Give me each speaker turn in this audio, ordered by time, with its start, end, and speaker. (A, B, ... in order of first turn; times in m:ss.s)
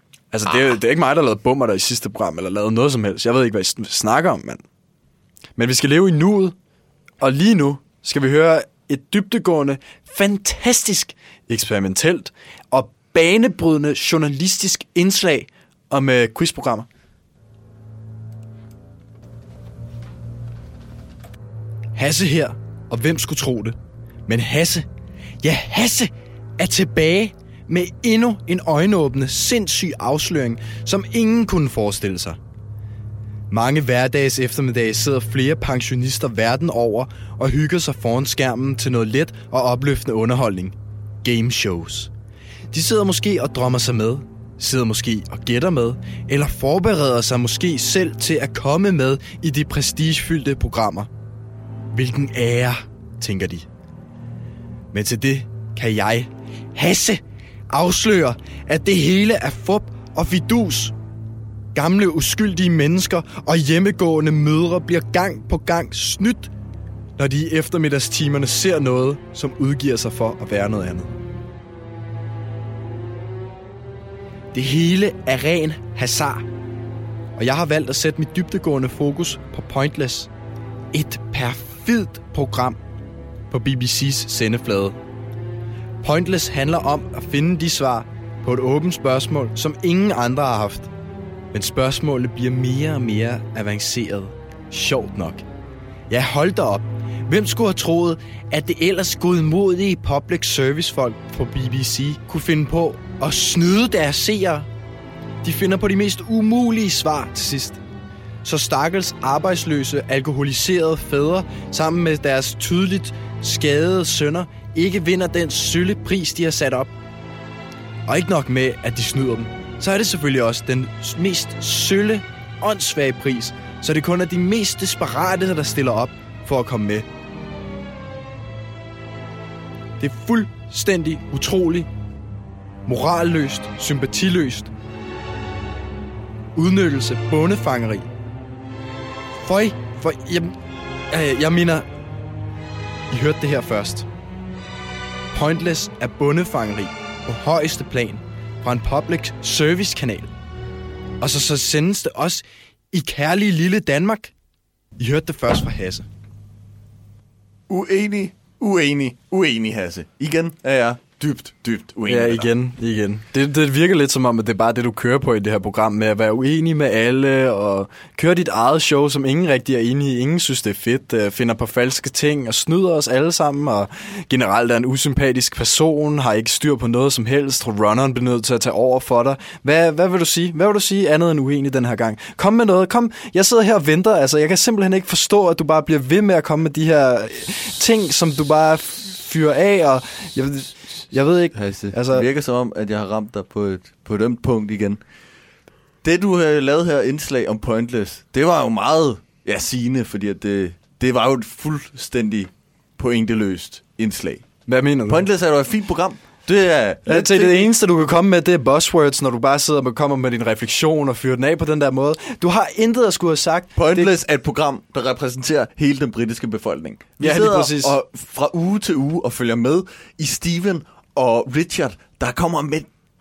0:00.3-0:04.6 A
0:05.6-0:06.6 A
0:07.2-0:16.9 A
0:22.0-0:24.9 A
0:25.4-0:32.4 A
0:33.5-0:42.1 A
0:42.7-0:51.1 A
0:51.9-0:53.7 A
0:54.9-1:01.0 A
1:01.7-1:06.5 A
1:07.2-1:11.2 A
1:14.5-1:16.5 A
1:17.4-1:20.3 A
1:20.9-1:22.8 A
1:23.5-1:25.0 A
1:26.0-1:30.9 A
1:31.5-1:35.4 A
1:36.1-1:44.7 A
1:45.4-1:47.8 A
1:48.4-1:56.9 A
1:58.1-2:07.1 A
2:10.0-2:11.9 A
2:12.9-2:14.7 A
2:16.6-2:18.1 A
2:19.4-2:20.6 A
2:21.1-2:21.9 A
2:23.1-2:24.1 A
2:25.3-2:30.3 A
2:31.2-2:34.3 A
2:35.0-2:36.1 A
2:37.7-2:42.5 B
2:42.1-3:12.3 A
3:11.6-3:15.0 B
3:16.0-3:24.5 B
3:24.7-3:25.3 A
3:25.1-3:27.7 B
3:27.1-3:34.2 A
3:33.8-3:42.9 B
3:37.2-3:38.0 A